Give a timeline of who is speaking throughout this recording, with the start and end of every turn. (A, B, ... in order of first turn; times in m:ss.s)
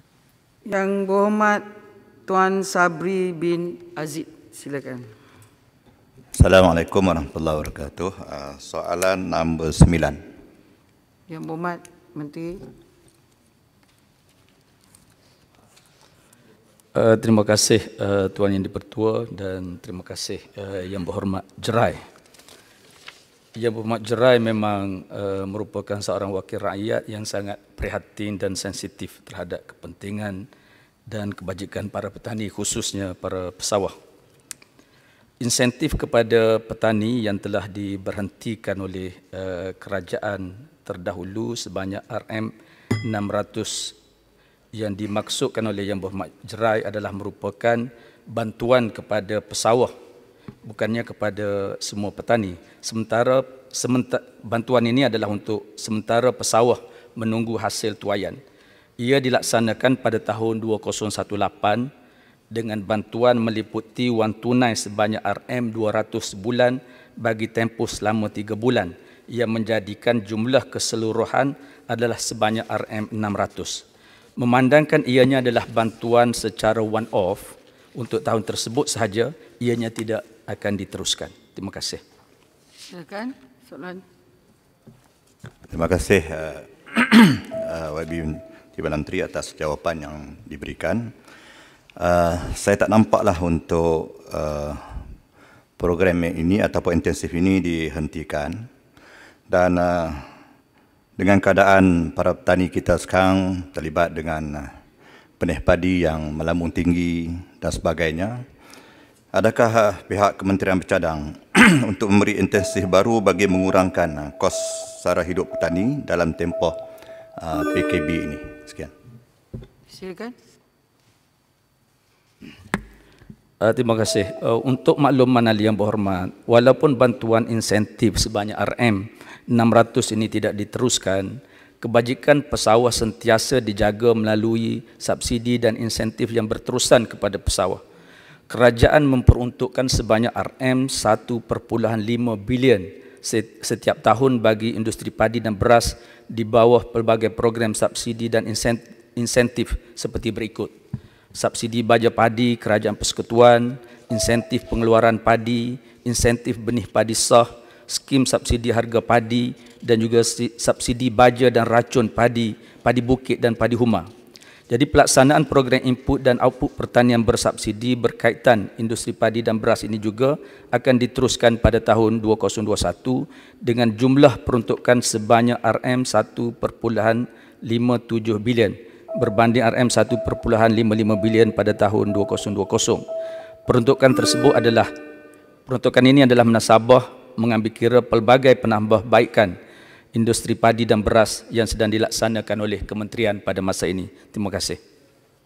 0:00.6-0:01.6 A
0:02.3-0:05.0 A
0:06.3-0:10.2 B
0:11.3-0:12.6 A
0:16.9-0:22.0 C
0:23.5-0:30.4 C
0:31.1-0:33.9 C
0:35.4-0:44.0 C
0:44.7-0:49.9 C
0:50.6-0:58.4 C
0:59.0-1:01.9 C
1:02.5-1:13.8 C
1:14.4-1:22.0 C
1:22.9-1:24.0 A
1:25.7-1:31.1 B
1:32.0-1:35.0 B
1:35.8-1:38.6 B
1:39.5-1:40.2 B
1:41.2-1:44.7 B
1:45.4-1:48.4 B
1:49.3-1:56.8 B
1:57.4-1:58.9 B
1:59.9-2:00.3 A
2:03.6-2:17.8 C
2:18.5-2:30.7 C
2:31.3-2:44.1 C
2:44.7-3:03.0 C
3:03.7-3:04.9 C
3:05.6-3:09.5 C
3:10.1-3:14.8 C